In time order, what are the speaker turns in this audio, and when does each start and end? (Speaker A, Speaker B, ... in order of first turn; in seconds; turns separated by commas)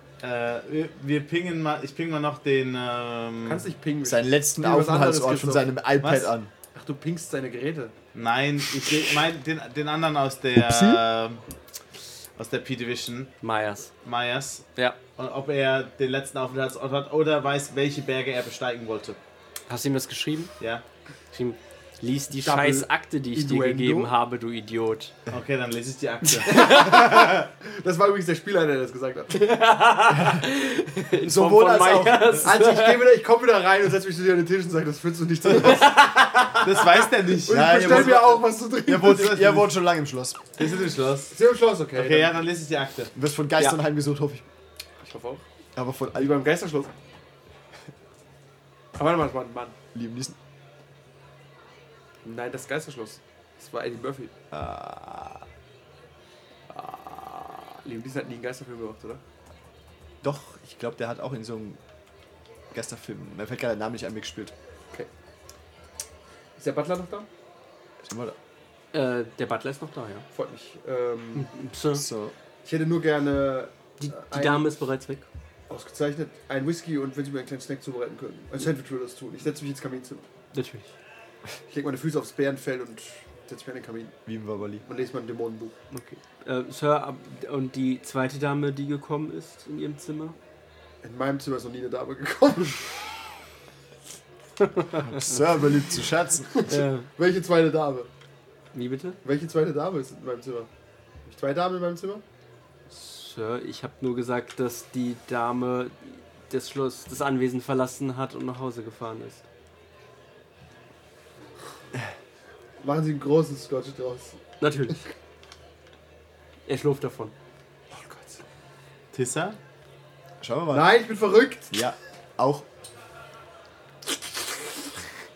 Speaker A: 0.2-3.7, Speaker B: 3.5-5.7, Speaker C: 4.0-6.5, Speaker A: 6.0-6.3, Speaker B: 6.7-7.9, Speaker A: 8.1-11.4, Speaker C: 10.6-11.0, Speaker A: 12.4-13.3, Speaker D: 13.4-13.9, Speaker A: 14.0-19.2, Speaker D: 19.7-20.5, Speaker D: 21.3-25.1, Speaker B: 22.4-24.1, Speaker A: 25.3-27.5, Speaker B: 26.3-29.5, Speaker D: 26.4-27.0, Speaker D: 29.3-33.0, Speaker C: 30.1-30.4, Speaker C: 31.2-32.5, Speaker B: 32.4-36.0, Speaker D: 35.6-36.7, Speaker A: 36.6-39.7, Speaker B: 37.4-39.6, Speaker C: 37.5-40.4, Speaker A: 40.6-41.4, Speaker B: 41.3-42.4, Speaker A: 42.0-43.1, Speaker C: 43.1-44.5, Speaker B: 45.0-45.4, Speaker C: 45.8-46.2, Speaker B: 46.1-46.9, Speaker B: 49.0-49.8, Speaker C: 49.9-50.4, Speaker B: 52.2-54.3, Speaker C: 54.5-55.5, Speaker B: 56.7-59.2, Speaker C: 60.2-61.8, Speaker C: 62.7-64.5, Speaker B: 66.6-67.3, Speaker C: 68.0-68.4, Speaker D: 68.9-70.3, Speaker B: 70.3-71.5, Speaker D: 71.3-72.0, Speaker C: 72.0-72.3, Speaker B: 72.6-74.7, Speaker D: 74.0-75.2, Speaker B: 75.7-80.2, Speaker D: 80.5-80.9, Speaker B: 81.7-84.2, Speaker C: 84.3-84.8, Speaker B: 84.8-85.7, Speaker D: 85.9-90.4, Speaker B: 91.0-93.1, Speaker C: 94.9-96.7, Speaker B: 96.5-98.1, Speaker D: 96.7-97.1, Speaker D: 98.7-99.2, Speaker B: 99.2-100.7, Speaker B: 101.2-102.2, Speaker D: 102.9-109.5, Speaker B: 112.8-114.4, Speaker D: 114.6-115.0, Speaker D: 116.7-117.3, Speaker B: 117.9-118.4, Speaker A: 119.1-119.6, Speaker C: 120.4-121.0, Speaker B: 120.7-121.7, Speaker C: 121.7-122.7